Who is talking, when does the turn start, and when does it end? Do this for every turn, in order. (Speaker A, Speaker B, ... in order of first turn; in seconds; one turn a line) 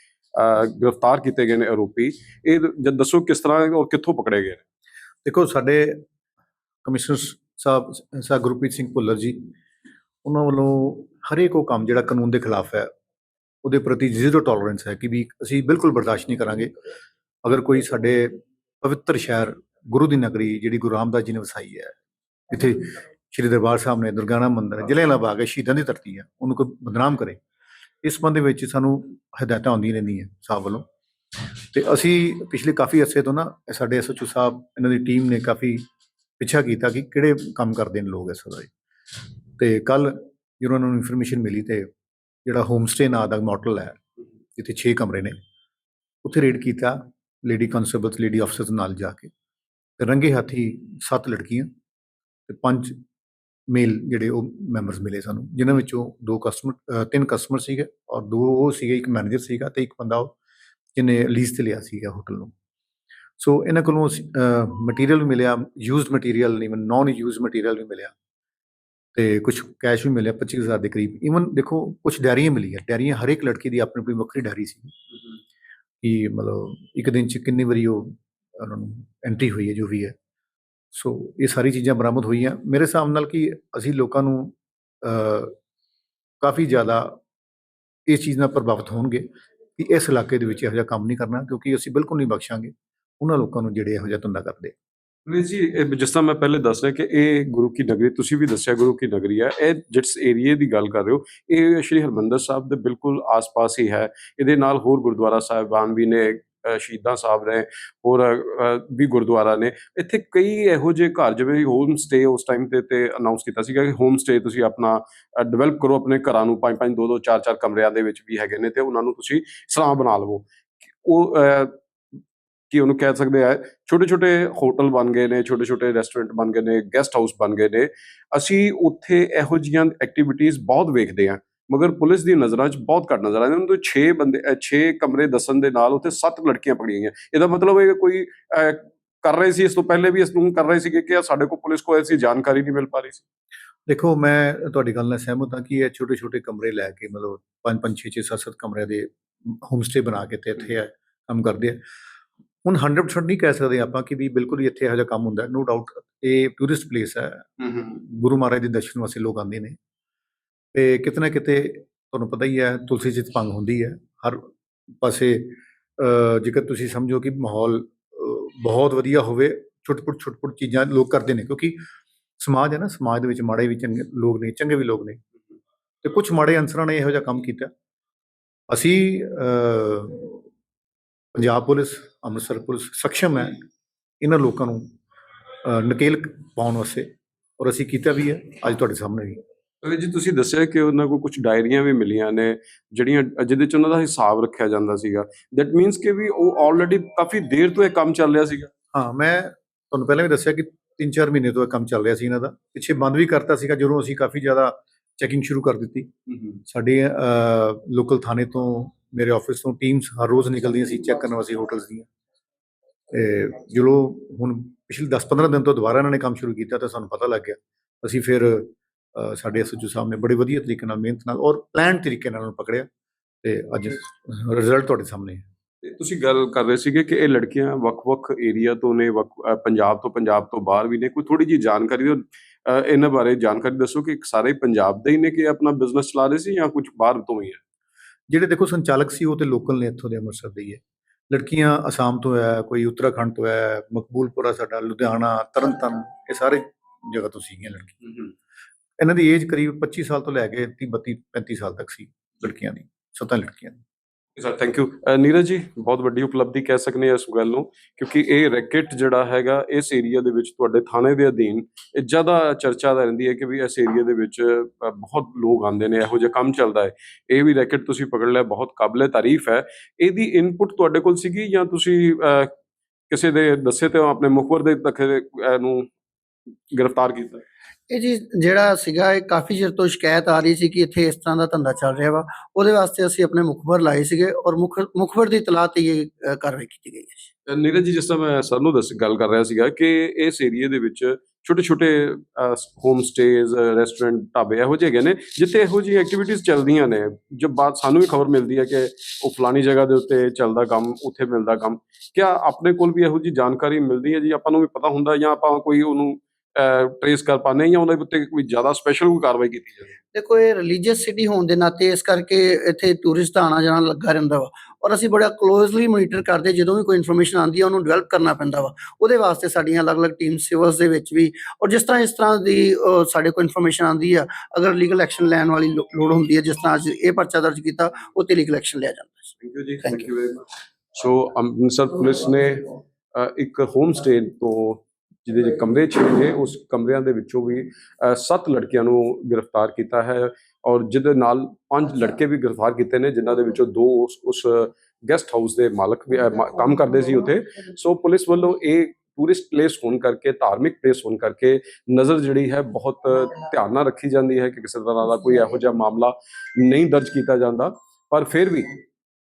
Speaker A: 0.3-4.6
Speaker B: 5.2-6.0
Speaker B: 6.8-9.5
Speaker B: 10.2-12.9
Speaker B: 13.6-16.7
Speaker B: 17.4-22.0
Speaker B: 22.5-27.4
Speaker B: 28.0-30.9
Speaker B: 31.7-35.9
Speaker B: 36.4-38.7
Speaker B: 39.6-41.9
Speaker B: 42.5-44.0
Speaker B: 44.6-45.4
Speaker B: 46.2-49.3
Speaker B: 50.0-51.7
Speaker B: 52.5-53.0
Speaker B: 53.7-60.3
Speaker B: 61.0-62.5
Speaker B: 63.4-68.1
Speaker B: 69.1-75.0
Speaker B: 76.0-80.2
Speaker B: 80.9-85.6
Speaker B: 86.4-87.2
Speaker B: 88.1-94.7
Speaker A: 95.3-120.5
Speaker A: 121.0-121.8
Speaker A: 122.7-143.2
Speaker B: 143.9-151.8
Speaker B: 152.6-159.8
Speaker B: 160.7-164.5
Speaker B: 165.0-171.8
Speaker B: 172.4-175.2
Speaker B: 176.0-177.7
Speaker B: 178.7-180.4
Speaker B: 181.3-183.6
Speaker B: 184.2-184.9
Speaker B: 185.6-189.4
Speaker A: 189.8-198.7
Speaker B: 198.9-206.1
Speaker B: 206.7-212.1
Speaker B: 213.1-222.9
Speaker B: 223.4-225.4
Speaker A: 225.8-237.6
Speaker B: 238.3-248.0
Speaker B: 249.0-253.8
Speaker A: 254.4-272.5
Speaker A: 273.1-275.9
Speaker A: 276.7-277.4
Speaker C: 277.9-287.3
Speaker A: 287.5-309.9
Speaker C: 310.1-330.0
Speaker A: 329.4-358.8